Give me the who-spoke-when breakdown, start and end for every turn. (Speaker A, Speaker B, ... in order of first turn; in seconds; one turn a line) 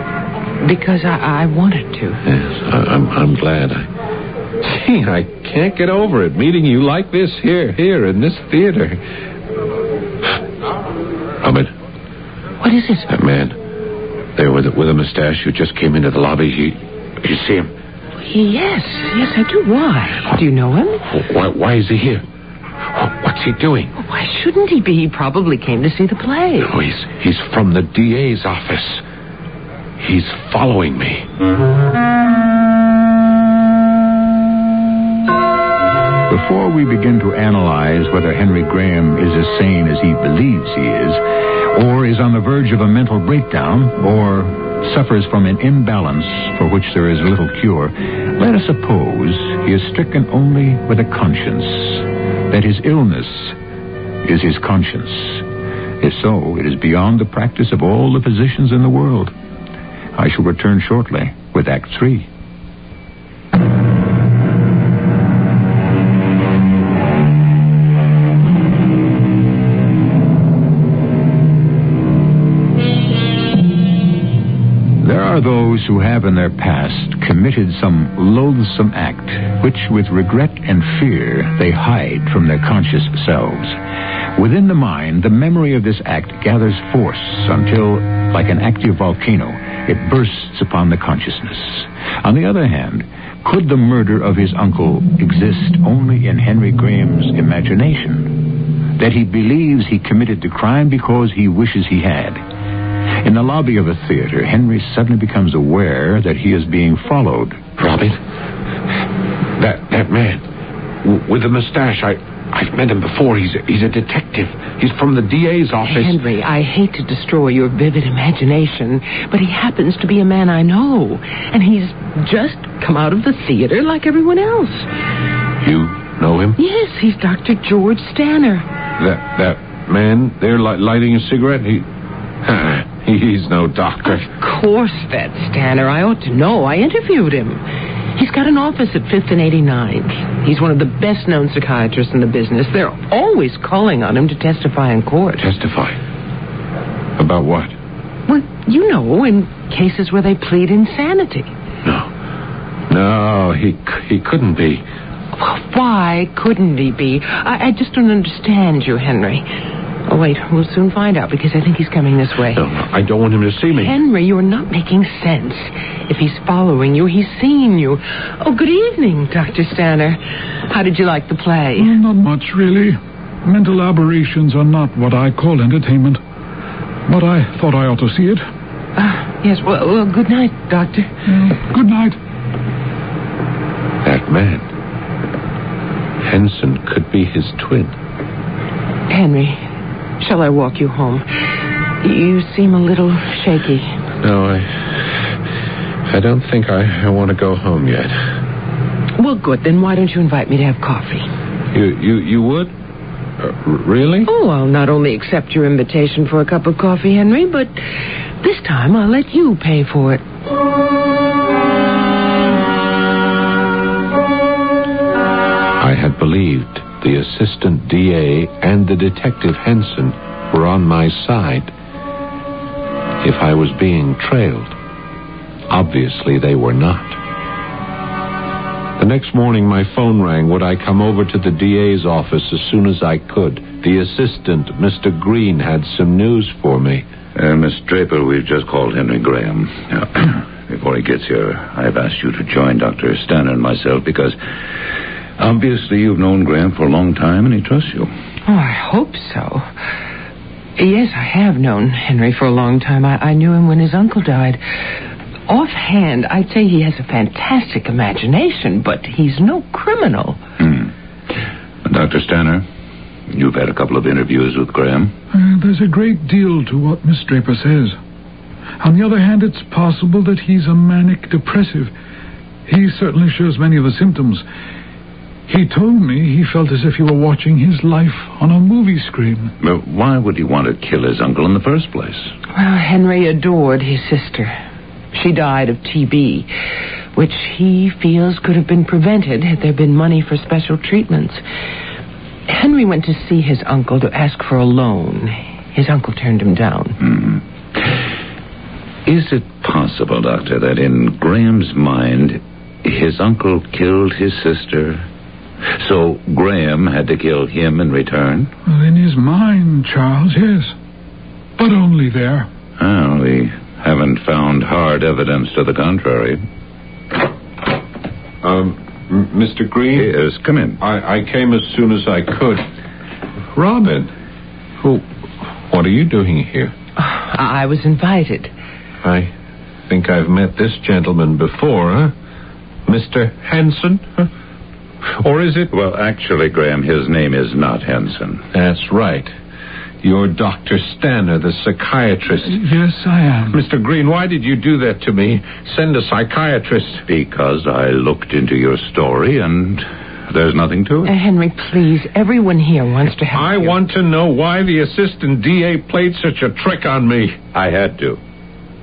Speaker A: 0.6-2.2
Speaker B: 2.2-3.9
Speaker B: 4.6-9.0
Speaker B: 11.4-11.7
Speaker A: 12.6-13.1
Speaker B: 13.1-13.6
Speaker B: 14.4-17.7
Speaker A: 18.2-21.1
Speaker B: 21.1-22.2
Speaker B: 22.9-23.9
Speaker A: 24.0-26.7
Speaker B: 26.6-29.0
Speaker B: 30.0-31.3
Speaker C: 36.3-53.6
Speaker C: 54.2-55.4
Speaker C: 56.0-59.3
Speaker C: 60.2-62.3
Speaker C: 75.0-83.8
Speaker C: 84.3-98.4
Speaker C: 99.0-102.4
Speaker C: 103.2-107.6
Speaker B: 107.8-108.2
Speaker B: 109.6-110.4
Speaker B: 111.0-116.2
Speaker A: 115.8-124.9
Speaker B: 125.6-126.6
Speaker A: 126.6-128.7
Speaker B: 129.0-131.9
Speaker B: 132.4-134.3
Speaker A: 134.1-137.6
Speaker A: 138.2-145.4
Speaker B: 145.4-146.0
Speaker B: 147.2-147.7
Speaker A: 148.3-151.5
Speaker B: 151.8-152.1
Speaker B: 152.9-154.9
Speaker A: 155.3-159.4
Speaker A: 160.1-162.6
Speaker B: 162.5-163.9
Speaker A: 163.7-172.0
Speaker D: 171.8-176.2
Speaker D: 177.1-178.4
Speaker A: 179.0-181.1
Speaker D: 181.3-182.2
Speaker B: 184.0-184.7
Speaker B: 186.2-187.9
Speaker A: 189.1-189.6
Speaker A: 190.2-191.3
Speaker A: 192.0-193.9
Speaker B: 194.2-195.3
Speaker B: 196.1-198.3
Speaker A: 199.2-201.3
Speaker B: 201.7-202.7
Speaker B: 203.4-204.3
Speaker A: 204.3-207.8
Speaker A: 208.4-210.2
Speaker B: 215.8-221.7
Speaker B: 223.2-224.8
Speaker B: 225.7-227.2
Speaker B: 229.0-237.1
Speaker E: 237.3-244.4
Speaker E: 245.4-248.1
Speaker A: 248.5-249.7
Speaker A: 250.8-254.6
Speaker A: 255.5-260.4
Speaker E: 260.6-260.9
Speaker E: 261.9-262.6
Speaker E: 263.3-265.1
Speaker D: 265.3-268.0
Speaker D: 268.8-271.9
Speaker D: 272.7-274.4
Speaker D: 275.5-279.5
Speaker E: 279.6-282.3
Speaker A: 282.5-284.5
Speaker A: 285.1-286.5
Speaker A: 287.1-291.4
Speaker A: 292.5-297.0
Speaker E: 297.0-297.4
Speaker E: 299.1-305.1
Speaker E: 305.8-308.5
Speaker D: 308.7-310.7
Speaker D: 311.6-312.5
Speaker E: 312.8-316.4
Speaker B: 318.4-320.1
Speaker E: 319.9-320.8
Speaker B: 320.8-322.6
Speaker B: 323.5-324.1
Speaker B: 325.7-326.7
Speaker A: 327.0-328.5
Speaker B: 329.0-329.3
Speaker B: 329.9-332.1
Speaker B: 332.9-334.3
Speaker B: 335.0-335.7
Speaker E: 335.7-338.4
Speaker B: 338.5-339.3
Speaker B: 340.0-342.6
Speaker D: 342.5-343.6
Speaker B: 343.5-347.1
Speaker E: 347.1-351.1
Speaker A: 351.1-353.7
Speaker B: 353.3-357.4
Speaker E: 357.5-358.2